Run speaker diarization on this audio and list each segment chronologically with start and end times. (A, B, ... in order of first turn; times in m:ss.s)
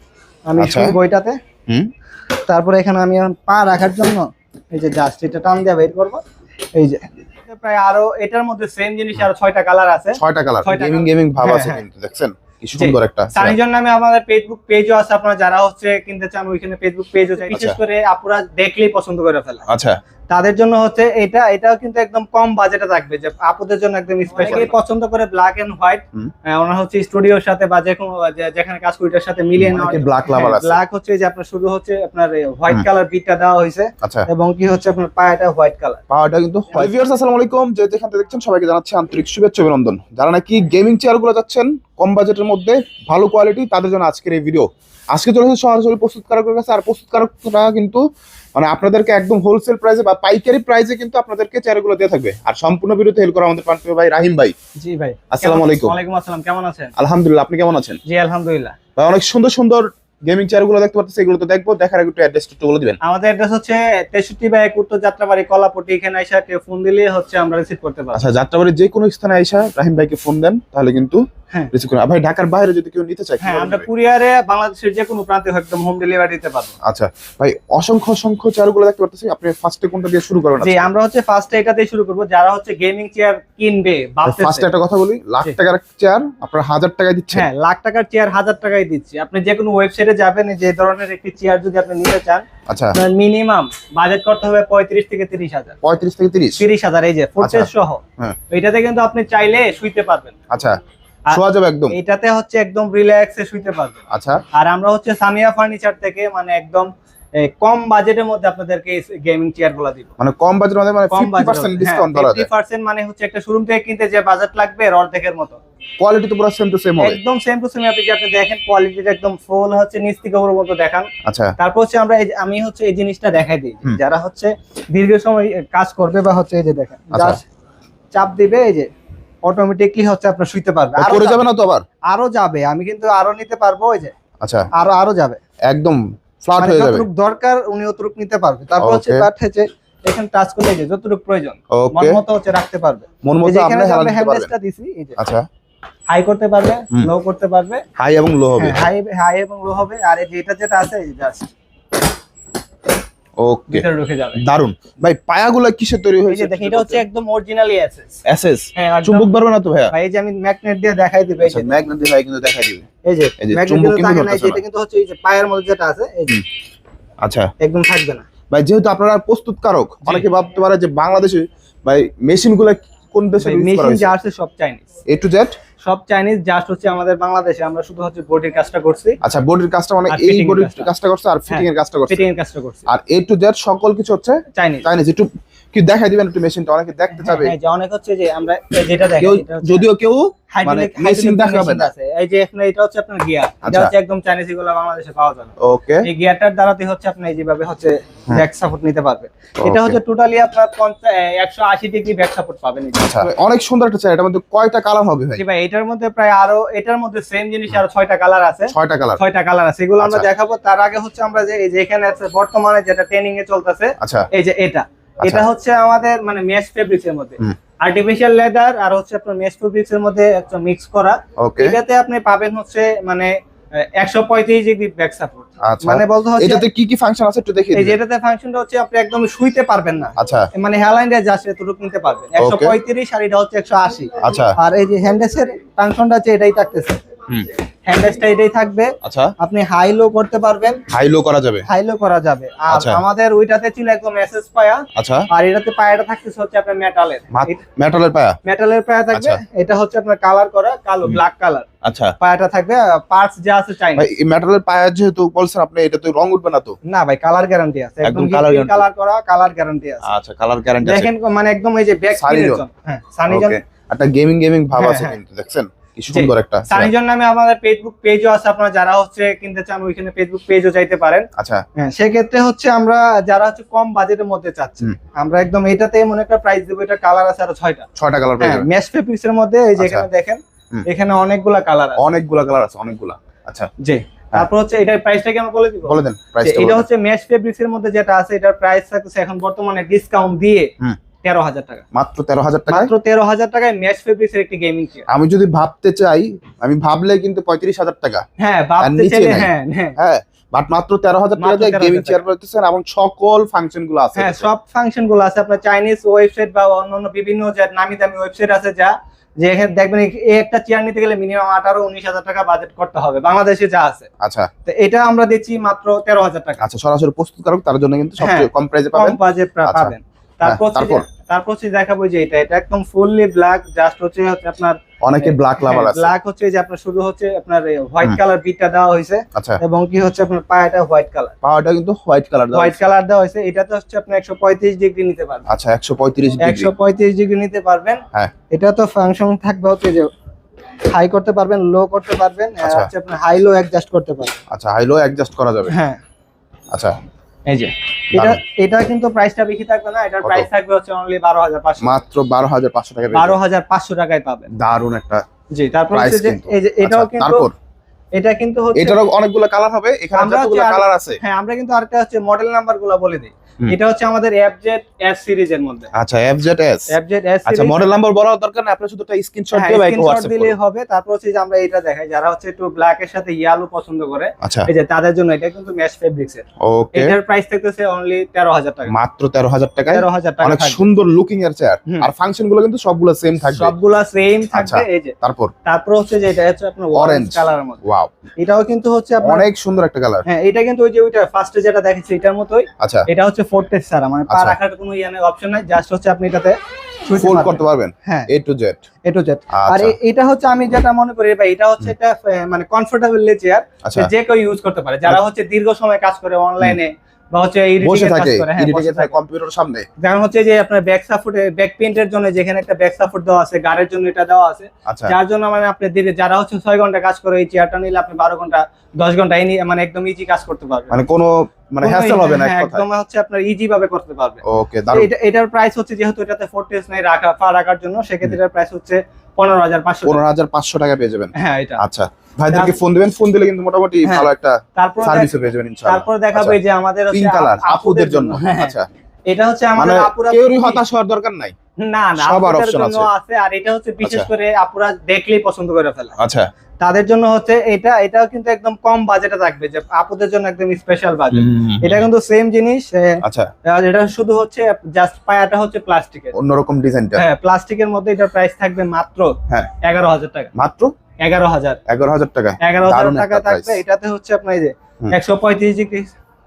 0:00.5-0:01.4 A
0:00.6-0:01.0 B
0:02.5-0:06.2 A
0:06.7-0:11.8 A
0:10.2-0:13.6 B
0:12.8-0:19.6 A
0:17.5-0:17.8 B
0:19.7-0:20.0 B
0:20.3-0:36.0 A
0:24.5-0:24.7 B
0:29.6-0:30.8 B
0:34.0-0:34.3 B
0:36.1-0:48.0 B
0:48.6-0:54.6 B
0:54.8-0:56.9 A
0:55.3-0:56.0 B
0:57.0-0:58.0 B
0:58.1-0:58.8 A
0:59.0-1:03.0 B
1:03.0-1:08.2 A
1:08.1-1:13.9 B
1:13.4-1:16.7 A
1:16.8-1:20.9 B
1:20.6-1:24.7 A
1:24.2-1:27.5 B
1:27.3-1:35.8 A
1:32.7-1:33.0 B
1:35.8-1:36.6 B
1:36.6-1:40.3 A
1:37.4-1:38.4 B
1:40.5-1:40.8 B
1:41.3-1:42.0 B
1:41.9-1:44.0 A
1:44.1-1:44.4 B
1:44.5-1:50.1 A
1:50.2-1:52.5 B
1:51.1-1:55.6 A
1:56.0-1:57.2 B
1:57.0-2:07.4 A
2:01.2-2:01.5 B
2:07.1-2:07.4 B
2:08.1-2:08.9 A
2:09.4-2:11.5 A
2:11.0-2:11.8 B
2:12.1-2:14.2 A
2:14.4-2:14.7 B
2:14.7-2:15.4 A
2:15.7-2:17.1 B
2:16.6-2:25.2 A
2:18.8-2:19.3 B
2:21.7-2:22.2 B
2:23.2-2:24.5 B
2:25.2-2:25.4 B
2:26.1-2:27.8 A
2:28.0-2:28.8 B
2:28.6-2:31.5 A
2:33.4-2:37.0 B
2:33.7-2:34.4 A
2:36.3-2:38.1 A
2:38.3-2:39.9 B
2:38.8-2:39.3 A
2:39.9-2:41.7 A
2:41.4-2:42.9 B
2:43.0-2:46.4 A
2:43.4-2:44.6 B
2:47.2-2:47.5 B
2:47.6-2:48.3 A
2:48.5-2:54.2 B
2:53.4-2:54.9 A
2:55.1-2:55.6 B
2:55.8-2:59.2 A
2:59.2-3:02.3 B
3:00.1-3:00.9 A
3:01.5-3:02.9 A
3:02.9-3:07.5 B
3:04.5-3:04.9 A
3:07.2-3:09.9 A
3:09.2-3:11.9 B
3:10.5-3:15.5 A
3:13.6-3:13.9 B
3:15.6-3:16.1 B
3:16.0-3:23.3 A
3:19.6-3:20.0 B
3:23.0-3:25.4 B
3:25.4-3:46.6 A
3:28.7-3:29.2 B
3:30.0-3:30.3 B
3:34.0-3:34.3 B
3:41.4-3:41.8 B
3:45.6-3:48.0 B
3:47.7-3:57.0 A
3:50.2-3:50.5 B
3:52.4-3:52.8 B
3:54.2-3:54.6 B
3:57.9-4:00.8 A
3:59.0-3:59.3 B
4:00.9-4:01.7 B
4:01.7-4:07.6 A
4:02.7-4:03.0 B
4:05.0-4:05.3 B
4:07.3-4:08.4 B
4:08.4-4:11.7 A
4:09.1-4:09.4 B
4:11.8-4:12.1 B
4:12.2-4:14.1 A
4:14.0-4:16.8 B
4:16.8-4:20.1 A
4:18.0-4:18.8 B
4:20.0-4:21.1 B
4:20.8-4:23.6 A
4:22.2-4:22.6 B
4:23.3-4:26.9 B
4:24.8-4:25.2 A
4:26.1-4:37.9 A
4:31.4-4:31.6 B
4:38.0-4:38.7 B
4:38.4-4:42.0 A
4:39.8-4:40.1 B
4:42.0-4:43.7 B
4:43.8-4:50.7 A
4:45.9-4:46.9 B
4:51.2-4:51.8 A
4:51.9-4:52.9 B
4:52.7-4:55.0 A
4:55.1-4:58.2 B
4:58.4-5:00.0 A
4:58.8-5:04.5 B
5:01.4-5:02.2 A
5:04.2-5:14.1 A
5:14.2-5:14.5 B
5:14.6-5:16.6 A
5:16.6-5:21.0 B
5:18.2-5:31.4 A
5:25.0-5:26.1 B
5:29.4-5:29.6 B
5:31.4-5:32.8 B
5:32.5-5:35.4 A
5:35.5-5:36.7 B
5:36.4-5:40.1 A
5:40.9-5:44.4 A
5:42.6-5:42.9 B
5:44.5-5:45.7 B
5:45.7-5:46.0 A
5:47.5-5:52.0 A
5:48.1-5:48.4 B
5:51.8-5:53.4 B
5:53.1-5:54.5 A
5:54.5-5:55.2 B
5:55.5-5:57.5 A
5:55.9-5:57.5 B
5:58.2-5:59.0 A
5:58.8-6:01.2 B
6:00.1-6:05.9 A
6:05.9-6:06.9 B
6:06.9-6:07.9 A
6:07.5-6:10.6 B
6:09.5-6:18.9 A
6:14.4-6:14.7 B
6:16.6-6:17.2 B
6:18.9-6:23.7 B
6:19.9-6:20.8 A
6:23.6-6:27.8 A
6:24.5-6:25.5 B
6:26.9-6:28.1 B
6:28.4-6:29.5 A
6:29.2-6:30.2 B
6:30.3-6:38.3 A
6:32.8-6:33.1 B
6:34.3-6:34.6 B
6:37.2-6:38.8 B
6:39.0-6:49.1 A
6:39.5-6:40.0 B
6:43.8-6:44.1 B
6:47.8-6:49.9 B
6:50.0-7:01.0 A
6:54.9-6:55.2 B
7:00.9-7:02.8 B
7:01.8-7:10.2 A
7:04.4-7:05.1 B
7:10.0-7:18.9 B
7:11.4-7:11.8 A
7:12.5-7:12.8 A
7:14.0-7:18.7 A
7:19.3-7:20.8 A
7:19.8-7:21.6 B
7:21.8-7:26.2 A
7:22.2-7:23.1 B
7:24.0-7:24.3 B
7:26.2-7:26.5 B
7:26.8-7:36.4 A
7:31.3-7:32.0 B
7:33.2-7:33.5 B
7:36.3-7:37.2 B
7:37.2-7:40.5 A
7:40.6-7:40.9 B
7:41.2-7:41.8 A
7:41.9-7:43.8 B
7:42.6-7:46.1 A